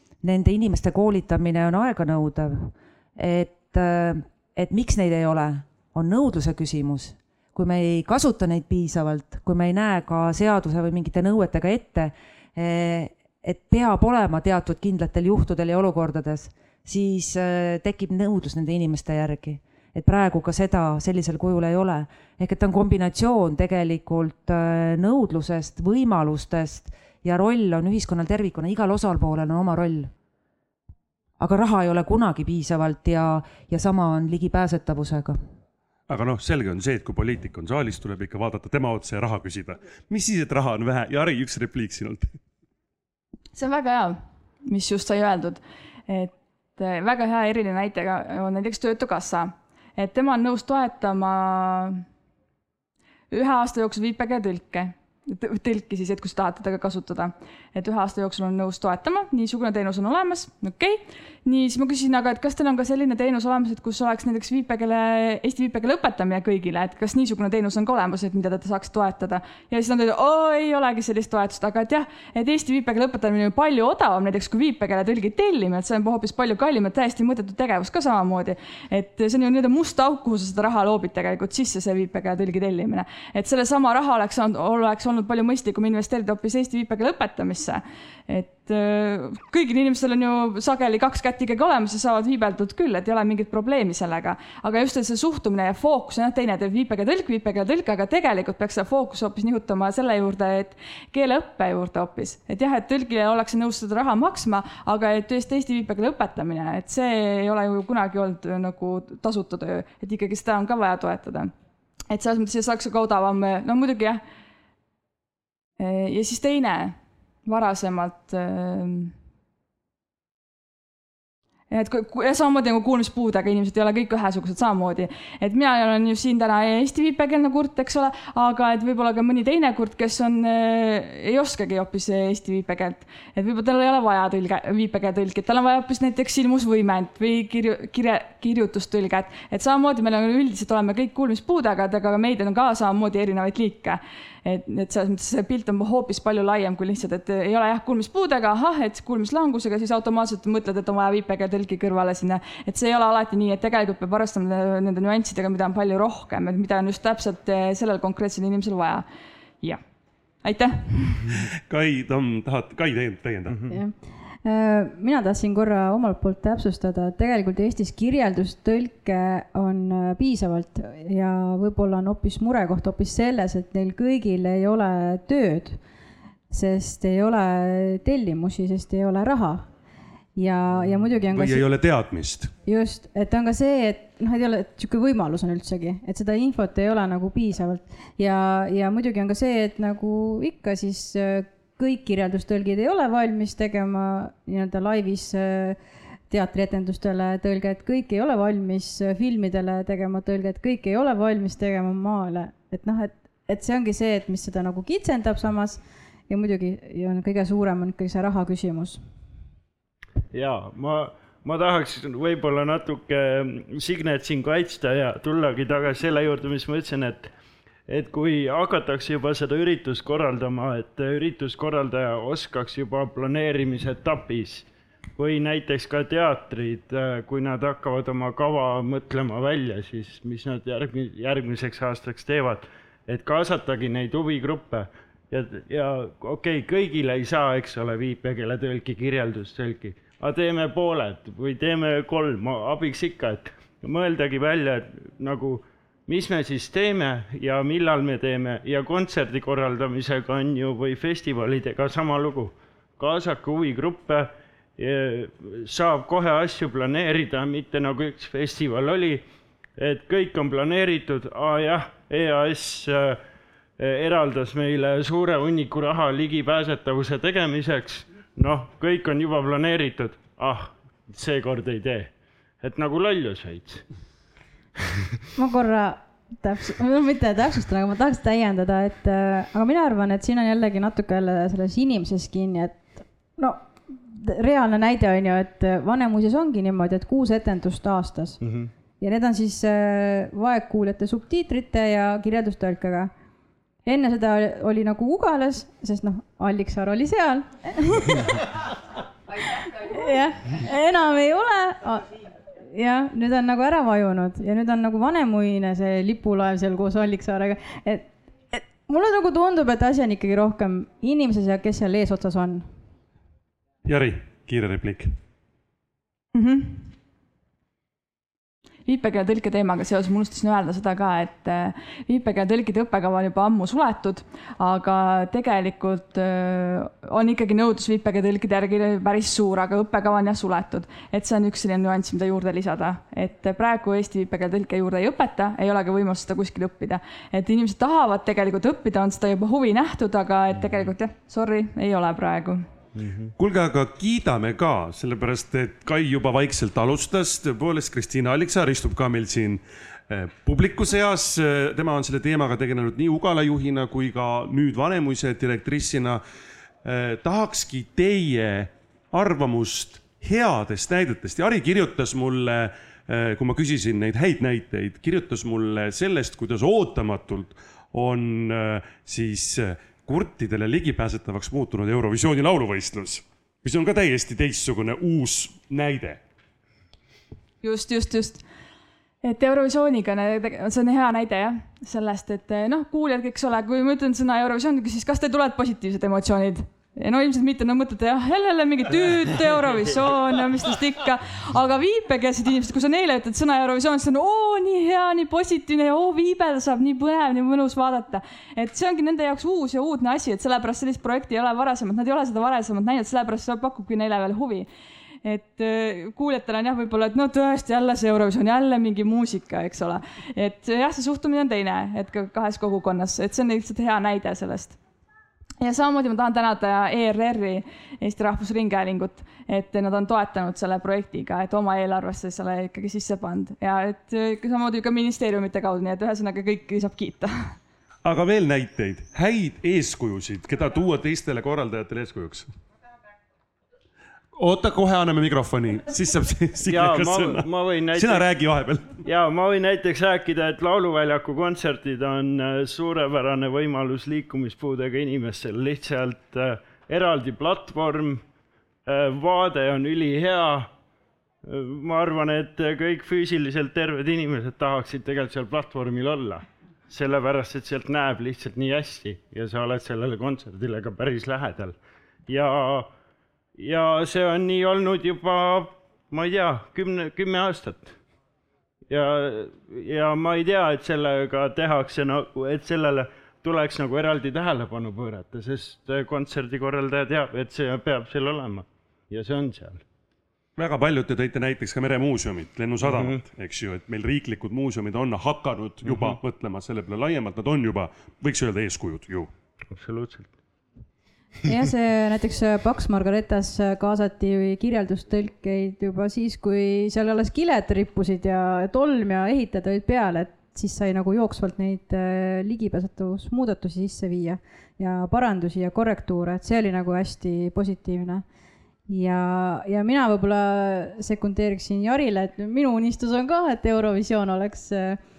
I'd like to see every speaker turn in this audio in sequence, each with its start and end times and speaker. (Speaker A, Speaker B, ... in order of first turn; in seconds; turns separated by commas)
Speaker A: 0.2-30.1, Speaker A: 31.4-35.4, Speaker B: 36.1-42.4, Speaker C: 43.5-52.0, Speaker C: 53.3-111.5, Speaker C: 112.1-114.2, Speaker C: 115.8-119.1, Speaker C: 121.7-159.1, Speaker C: 160.4-161.3, Speaker B: 161.7-163.6, Speaker D: 163.5-163.8, Speaker E: 163.7-175.8, Speaker E: 176.5-179.7, Speaker E: 180.4-181.7, Speaker B: 181.3-182.5, Speaker E: 182.7-195.8, Speaker E: 196.3-209.0, Speaker D: 210.3-217.3, Speaker D: 217.9-259.2, Speaker D: 259.8-263.2, Speaker D: 263.8-273.9, Speaker E: 275.4-288.4, Speaker D: 288.4-288.7, Speaker E: 289.0-293.1, Speaker E: 293.9-298.3, Speaker E: 299.6-302.1, Speaker E: 302.7-312.7, Speaker B: 313.9-315.1, Speaker C: 316.4-316.9, Speaker C: 318.9-342.7, Speaker D: 340.6-340.9, Speaker D: 342.9-343.3, Speaker B: 343.4-356.2, Speaker B: 356.8-376.2, Speaker C: 377.6-378.4, Speaker C: 379.2-404.7, Speaker D: 388.9-390.0, Speaker C: 405.2-414.8, Speaker C: 415.6-427.6, Speaker B: 428.1-432.5, Speaker B: 434.4-439.0, Speaker D: 436.6-438.3, Speaker D: 439.0-448.2, Speaker D: 448.9-450.7, Speaker D: 451.4-462.9, Speaker D: 463.6-468.0, Speaker D: 468.9-479.8, Speaker B: 480.6-489.3, Speaker D: 482.8-483.2, Speaker D: 485.8-486.2, Speaker D: 489.7-490.3, Speaker E: 491.5-508.2, Speaker E: 508.9-515.0